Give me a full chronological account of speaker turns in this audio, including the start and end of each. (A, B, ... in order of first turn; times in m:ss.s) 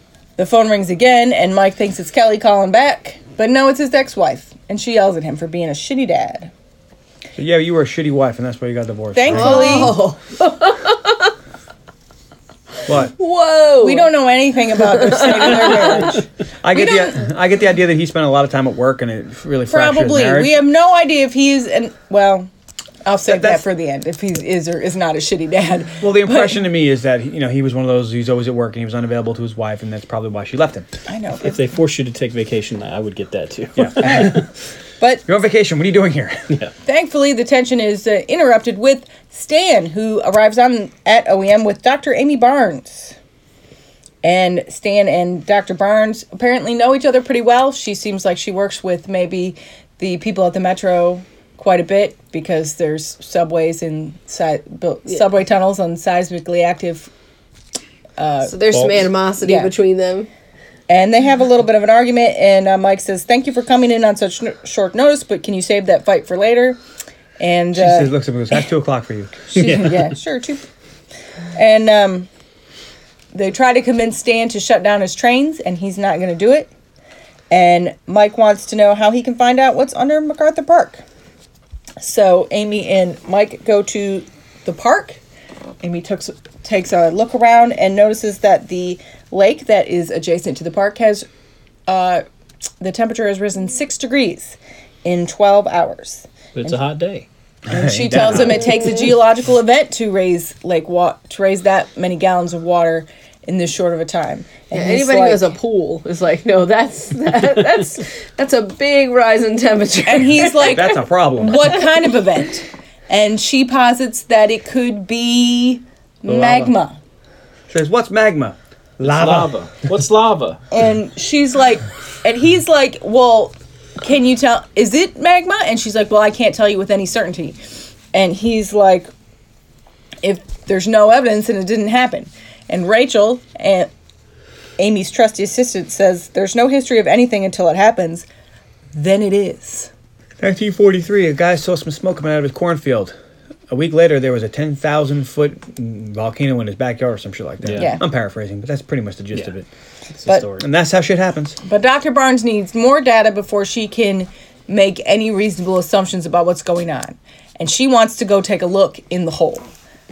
0:00.4-0:06.5 A
0:07.4-0:10.0 B
0:09.1-0:10.0 A
0:09.3-0:11.3 C
0:12.8-0:13.1 B
0:13.1-0:14.1 C
0:13.8-0:17.2 A
0:14.8-0:16.2 C
0:16.6-0:20.6 B
0:19.7-0:22.5 A
0:23.0-0:26.6 A
0:23.3-0:23.6 B
0:26.0-0:30.9 B
0:31.0-0:31.6 A
0:31.4-0:34.4 D
0:33.8-0:34.4 B
0:34.0-0:34.4 A
0:35.0-0:35.2 A
0:35.2-0:36.6 B
0:36.8-0:43.2 A
0:44.2-0:57.1 A
0:58.2-0:58.6 A
0:58.4-1:00.3 C
0:58.7-0:59.1 D
0:59.4-0:59.7 A
1:00.9-1:06.8 A
1:07.4-1:08.1 A
1:07.7-1:09.5 B
1:09.5-1:10.6 A
1:09.6-1:10.1 D
1:11.5-1:12.3 A
1:13.3-1:16.7 A
1:17.5-1:21.0 A
1:22.0-1:25.2 A
1:25.8-1:31.3 A
1:31.9-1:32.2 A
1:32.8-1:36.8 A
1:36.5-1:37.3 D
1:37.7-1:38.7 B
1:37.7-1:45.5 A
1:38.2-1:38.5 D
1:44.7-1:50.8 C
1:50.0-1:57.0 A
1:50.6-1:51.8 B
1:56.2-1:56.7 D
1:57.7-1:59.5 B
1:59.0-2:00.6 D
2:00.7-2:07.6 A
2:08.1-2:09.1 A
2:10.2-2:13.9 A
2:14.8-2:18.2 A
2:18.9-2:19.9 A
2:20.4-2:23.1 B
2:23.7-2:29.6 B
2:27.6-2:27.9 D
2:27.8-2:28.0 A
2:29.3-2:30.7 D
2:30.6-2:31.6 B
2:31.6-2:39.7 A